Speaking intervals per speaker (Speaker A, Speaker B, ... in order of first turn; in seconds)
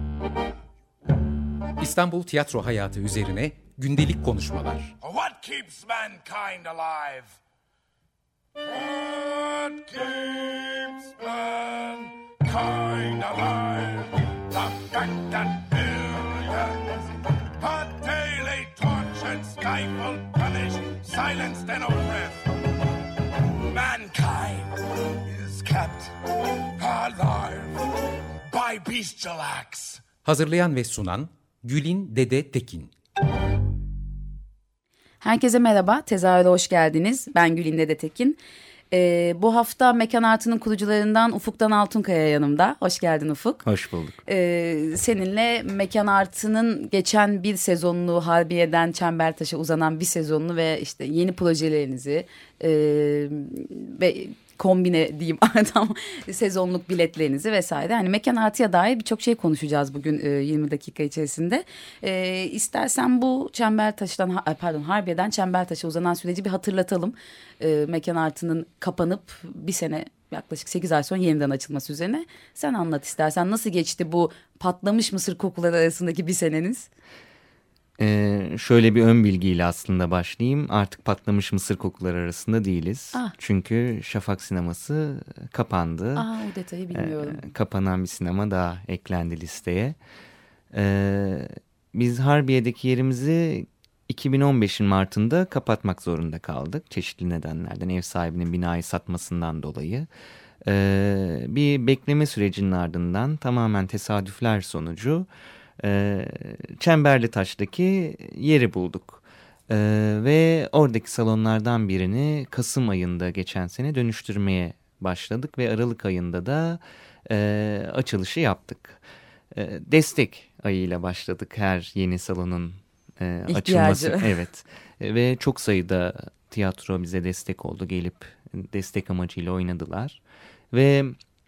Speaker A: 1.8-4.9, 30.2-32.9
Speaker B: 5.0-7.4, 8.6-17.0, 17.6-22.5, 23.7-26.1, 26.8-27.8, 28.5-30.0
Speaker C: 35.2-38.4, 38.9-43.6, 44.2-76.9, 86.2-87.5, 123.5-124.3
Speaker D: 43.6-44.2, 78.0-86.3, 86.9-90.0, 90.7-100.1, 100.6-105.3, 105.8-130.2, 130.7-131.2